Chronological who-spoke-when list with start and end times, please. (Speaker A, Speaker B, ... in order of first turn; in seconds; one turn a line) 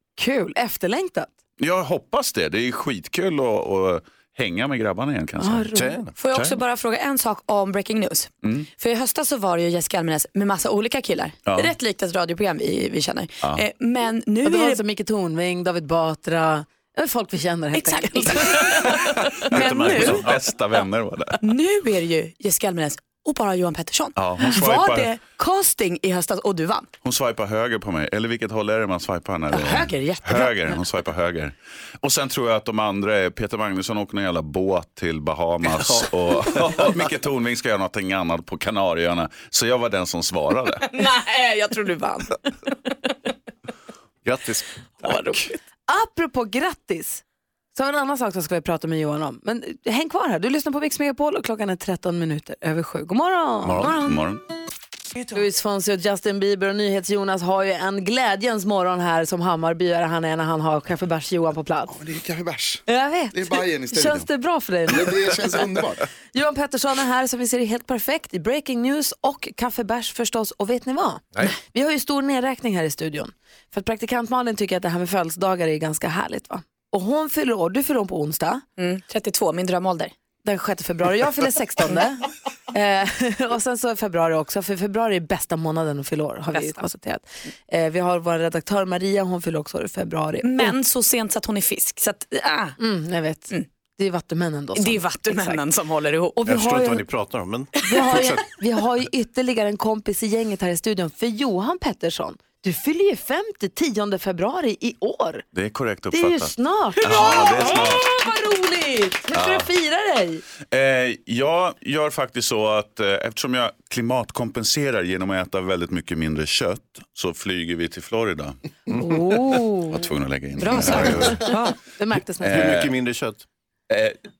Speaker A: 0.2-1.3
Speaker B: 1.6-6.6
Speaker A: 5.4-6.0
Speaker C: 5.7-6.1
Speaker D: 6.2-14.8
Speaker B: 11.5-11.7
Speaker A: 14.4-18.8
Speaker D: 17.7-18.7
Speaker C: 19.4-20.4
Speaker D: 19.5-20.3
Speaker B: 19.6-21.4
Speaker D: 21.4-26.9
Speaker B: 24.1-25.1
Speaker B: 27.0-40.8
Speaker D: 29.5-30.8
Speaker C: 35.6-37.1
Speaker D: 40.9-43.1
Speaker C: 44.2-44.6
Speaker D: 45.0-45.6
Speaker A: 45.9-47.2
Speaker A: 47.7-54.2
Speaker C: 53.6-53.9
Speaker B: 53.9-54.4
Speaker A: 55.3-62.0
Speaker E: 61.9-64.3
Speaker A: 62.9-65.8
Speaker E: 64.9-66.0
Speaker A: 66.3-78.6
Speaker D: 78.8-80.1
Speaker A: 80.4-90.7
Speaker D: 86.5-86.8
Speaker D: 90.4-92.8
Speaker A: 92.8-95.6
Speaker D: 94.8-96.4
Speaker A: 96.4-97.0
Speaker C: 96.4-98.4
Speaker A: 97.8-105.4
Speaker B: 105.5-108.0
Speaker A: 106.1-110.4
Speaker C: 107.2-107.9
Speaker B: 110.7-118.6
Speaker A: 118.9-120.1
Speaker B: 119.9-121.4
Speaker A: 120.6-122.6
Speaker C: 120.8-121.3
Speaker B: 122.4-122.9
Speaker C: 122.4-123.4
Speaker B: 123.9-124.2